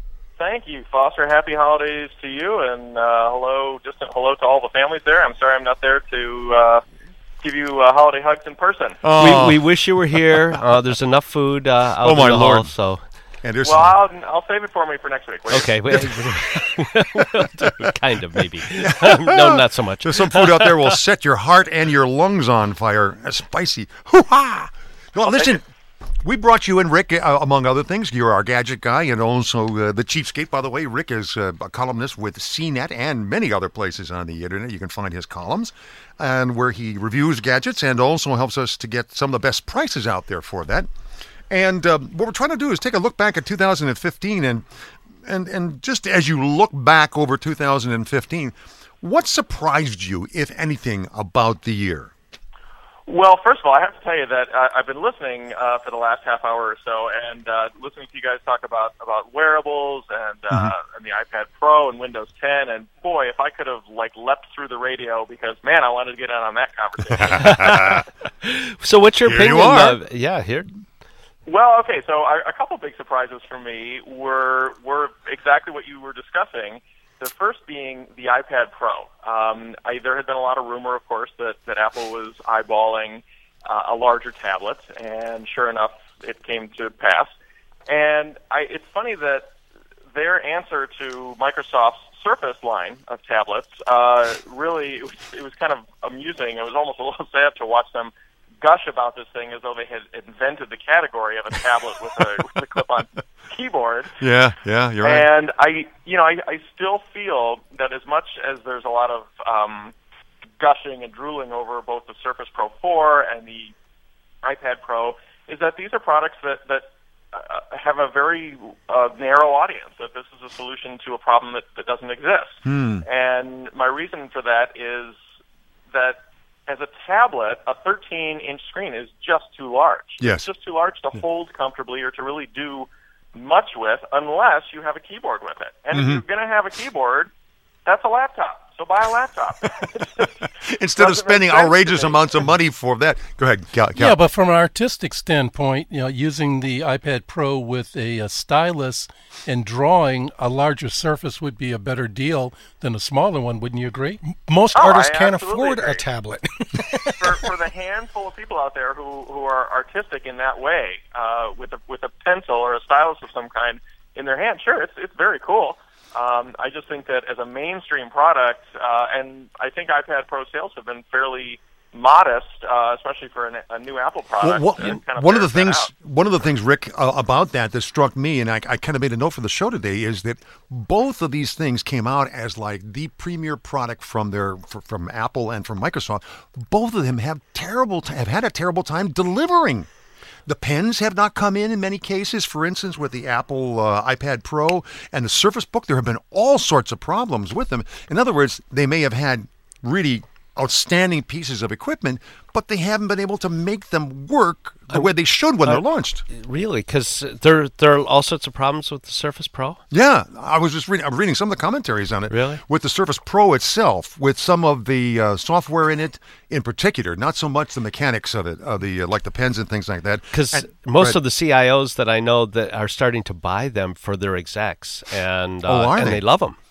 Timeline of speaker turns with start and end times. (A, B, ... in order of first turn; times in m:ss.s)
0:00.4-0:06.8 A
0:07.4-0:09.0 A
0:09.0-0:09.6 B
0:09.2-0:13.1 C
0:12.0-0:12.7 B
0:13.4-0:14.0 B
0:13.6-0:16.1 A
0:15.5-0:21.0 C
0:19.0-0:25.7 B
0:26.2-0:40.9 B
0:41.5-0:44.6 B
0:45.3-0:52.1 B
0:53.1-1:07.8 A
1:07.4-1:10.8 C
1:07.8-1:08.0 B
1:09.2-1:10.0 B
1:11.5-1:27.3 A
1:27.9-1:29.5 A
1:30.1-1:44.1 A
1:44.2-1:45.3 B
1:45.0-1:49.9 A
1:50.6-1:53.7 A
1:54.4-2:05.2 A
2:02.7-2:03.0 B
2:05.9-2:17.3 A
2:10.2-2:10.5 B
2:15.9-2:16.2 B
2:17.9-2:20.3 A
2:20.7-2:24.2 B
2:21.0-2:22.2 A
2:24.0-2:34.2 D
2:34.2-2:37.4 E
2:34.7-2:36.0 A
2:37.2-2:55.9 A
2:54.4-3:09.9 B
3:10.5-3:26.2 B
3:25.6-3:29.8 C
3:29.9-3:41.2 B
3:32.3-3:32.6 C
3:40.3-3:46.6 C
3:45.6-3:46.2 B